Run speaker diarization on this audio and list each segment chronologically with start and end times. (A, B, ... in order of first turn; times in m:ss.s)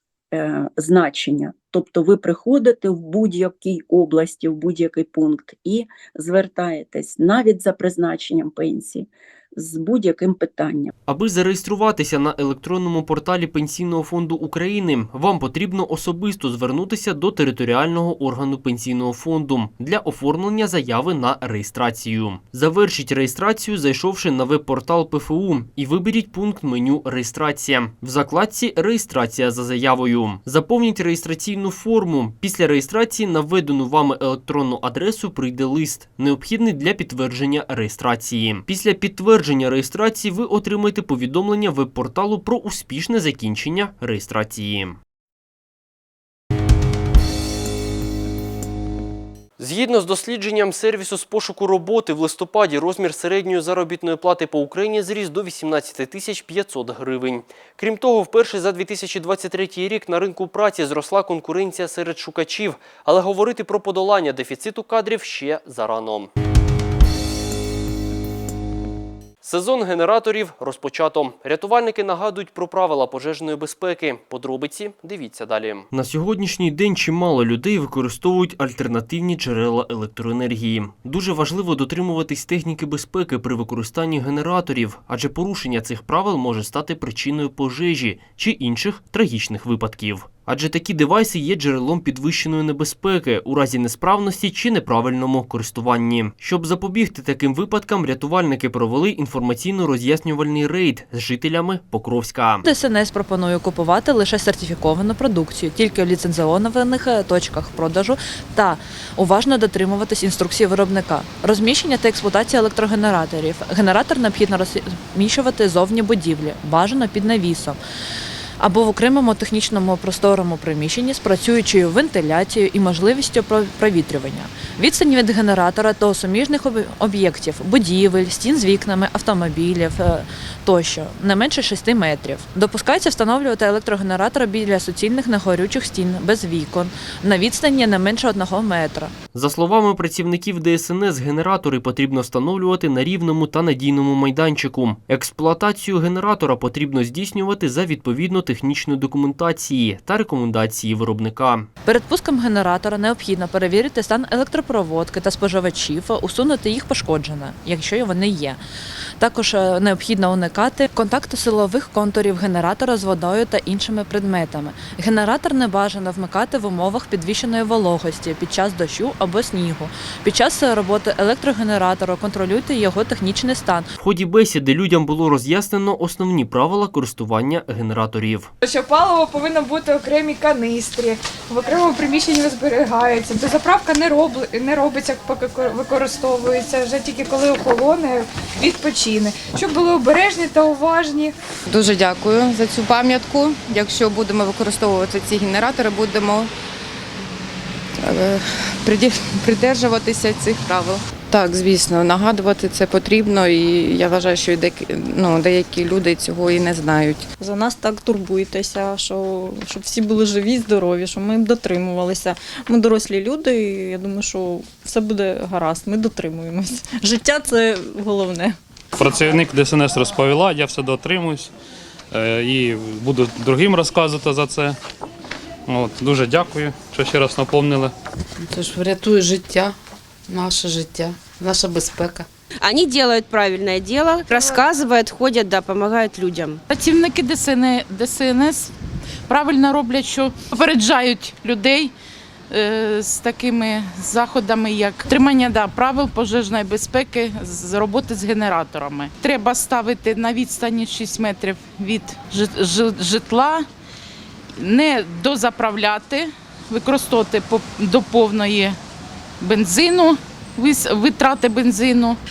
0:00.3-0:10.9 A
0:11.1-0:45.0 B
0:49.6-1:06.3 B
1:09.4-1:42.6 B
1:42.6-1:57.8 C
1:58.6-2:19.1 C
2:19.3-2:31.7 B
2:31.8-2:38.6 C
2:39.2-2:53.9 C
2:54.0-2:58.5 B
2:58.6-3:11.3 D
3:11.7-3:16.5 E
3:18.0-3:27.3 E
3:27.4-3:38.6 F
3:39.0-3:41.5 G
3:42.1-3:44.8 G
3:45.7-3:47.9 G
3:48.5-3:49.8 E
3:50.3-3:52.3 E
3:52.6-3:56.6 H
3:56.7-3:58.7 I
3:59.3-4:01.9 I
4:02.5-4:13.7 I
4:14.6-4:18.8 I
4:19.4-4:22.2 I